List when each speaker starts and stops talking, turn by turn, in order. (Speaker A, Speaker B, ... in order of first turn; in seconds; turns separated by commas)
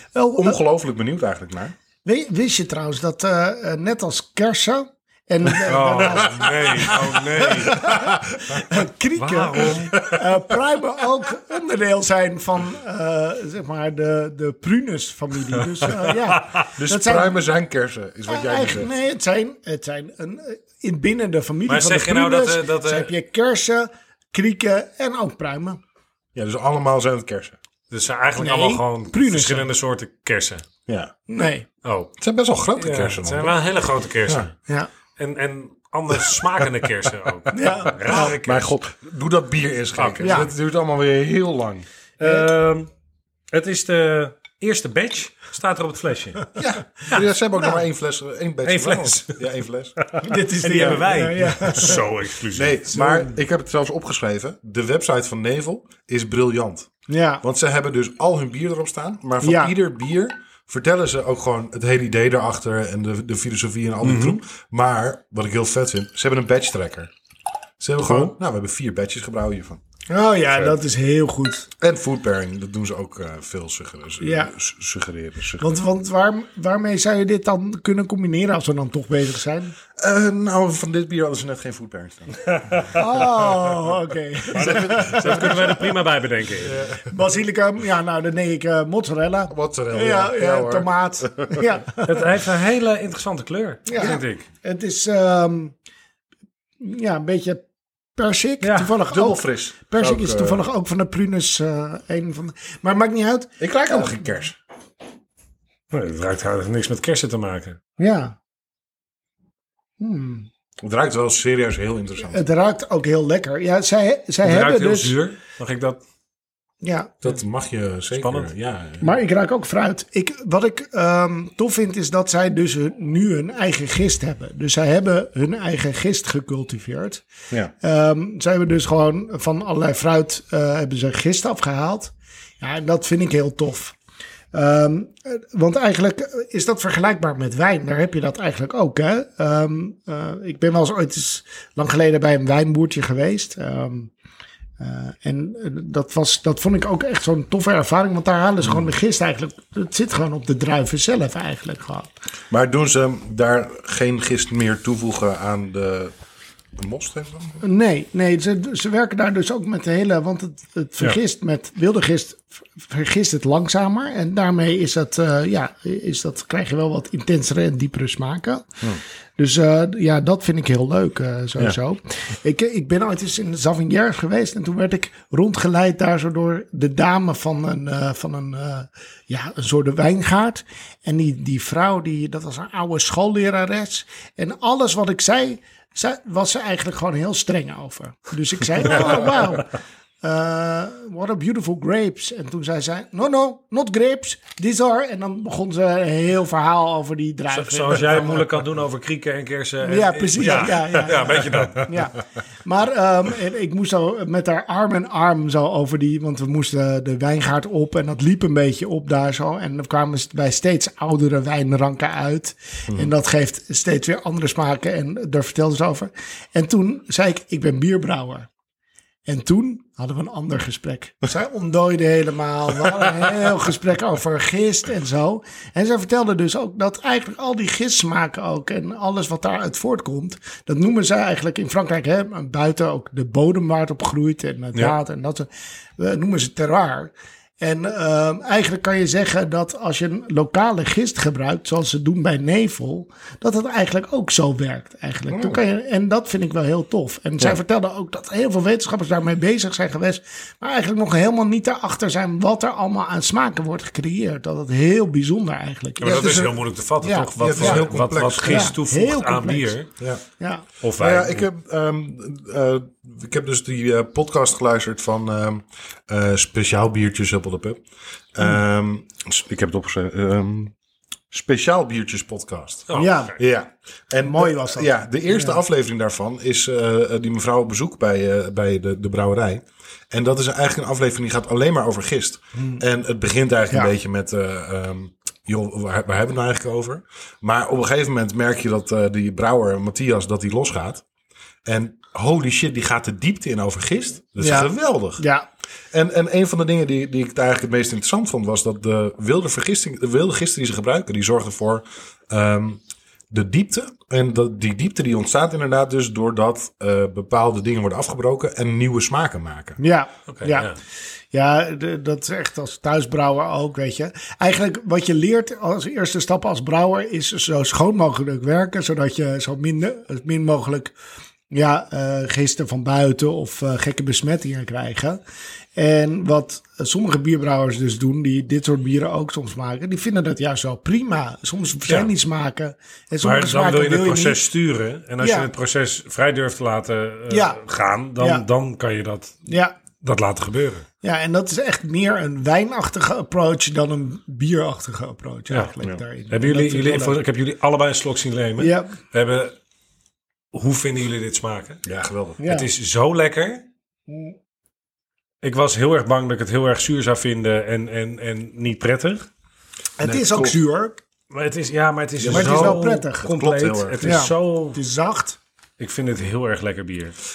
Speaker A: 0.1-0.6, Speaker B: 0.4-1.8, Speaker A: 2.0-17.4, Speaker C: 5.6-7.8, Speaker B: 7.7-8.6, Speaker C: 9.2-10.0, Speaker B: 9.9-10.6, Speaker C: 16.2-16.7, Speaker B: 16.8-18.9, Speaker A: 18.3-25.8, Speaker C: 21.7-23.1, Speaker B: 26.4-27.6, Speaker C: 27.9-30.6, Speaker A: 28.4-29.7, Speaker B: 30.9-31.1, Speaker A: 31.3-31.7, Speaker C: 31.8-32.1, Speaker B: 32.2-33.6, Speaker C: 32.8-34.5, Speaker C: 35.2-38.7, Speaker A: 37.5-38.3, Speaker B: 38.0-41.9, Speaker C: 40.0-40.5, Speaker A: 40.2-40.5, Speaker C: 42.2-42.9, Speaker A: 42.2-42.5, Speaker C: 43.5-46.4, Speaker B: 46.6-50.0, Speaker A: 47.5-47.8, Speaker C: 48.6-49.4, Speaker C: 50.0-52.8, Speaker A: 50.2-52.0, Speaker B: 52.5-56.9, Speaker A: 52.9-53.3, Speaker A: 57.1-57.4, Speaker B: 57.4-67.1, Speaker A: 59.4-59.7, Speaker C: 64.0-64.4, Speaker B: 67.8-69.8, Speaker C: 68.0-68.3, Speaker A: 70.1-71.7, Speaker B: 71.8-75.7, Speaker A: 74.2-74.5, Speaker A: 75.6-79.8, Speaker B: 80.0-83.8, Speaker C: 82.4-83.0, Speaker A: 83.0-85.9, Speaker C: 84.5-86.8, Speaker B: 84.5-85.7, Speaker B: 86.6-87.2, Speaker A: 87.0-92.3, Speaker B: 89.5-91.7, Speaker C: 92.0-94.5, Speaker A: 93.9-95.8, Speaker A: 96.8-97.6, Speaker A: 98.2-104.2, Speaker C: 98.6-98.9, Speaker B: 99.1-100.7, Speaker B: 103.6-104.6, Speaker C: 105.9-107.8, Speaker A: 108.0-108.3, Speaker A: 110.0-110.5, Speaker B: 110.8-112.4, Speaker A: 112.2-115.2, Speaker C: 114.4-116.0, Speaker A: 116.8-117.2, Speaker B: 117.2-119.2, Speaker C: 118.1-118.5, Speaker A: 119.0-127.2, Speaker A: 127.8-133.9, Speaker A: 134.5-144.1, Speaker A: 144.8-152.1, Speaker B: 152.5-156.1, Speaker B: 156.8-157.6, Speaker A: 157.6-168.7, Speaker A: 169.4-198.5, Speaker C: 197.5-201.9, Speaker A: 199.8-218.5, Speaker B: 201.6-201.9, Speaker A: 219.3-256.4, Speaker B: 245.3-245.6, Speaker C: 256.0-259.9, Speaker B: 256.0-256.6, Speaker A: 257.0-257.9, Speaker B: 257.4-258.7, Speaker A: 258.4-259.8, Speaker C: 260.8-261.5, Speaker B: 261.0-267.8, Speaker B: 268.3-270.7, Speaker B: 271.3-291.0, Speaker C: 272.9-273.3, Speaker A: 272.9-273.4, Speaker A: 274.2-275.6, Speaker A: 282.6-282.8, Speaker B: 291.6-295.2, Speaker A: 294.4-295.5, Speaker B: 295.9-309.8, Speaker A: 309.8-310.7, Speaker C: 310.3-310.8, Speaker A: 311.3-320.9, Speaker A: 321.5-325.2, Speaker A: 325.8-334.5, Speaker C: 333.2-339.5, Speaker A: 335.2-335.5, Speaker A: 337.3-337.6, Speaker A: 338.2-338.4, Speaker A: 339.5-339.8, Speaker C: 340.0-340.9, Speaker A: 341.0-347.2, Speaker C: 346.3-349.6, Speaker A: 348.6-348.9, Speaker C: 350.5-351.8, Speaker B: 351.9-352.4, Speaker A: 352.4-352.7, Speaker C: 352.4-353.6, Speaker A: 354.1-354.4, Speaker C: 355.4-359.3, Speaker A: 360.0-361.0, Speaker B: 360.0-360.6, Speaker C: 361.3-364.8, Speaker B: 362.2-364.3, Speaker A: 362.3-363.3, Speaker A: 364.0-365.4, Speaker C: 365.8-367.2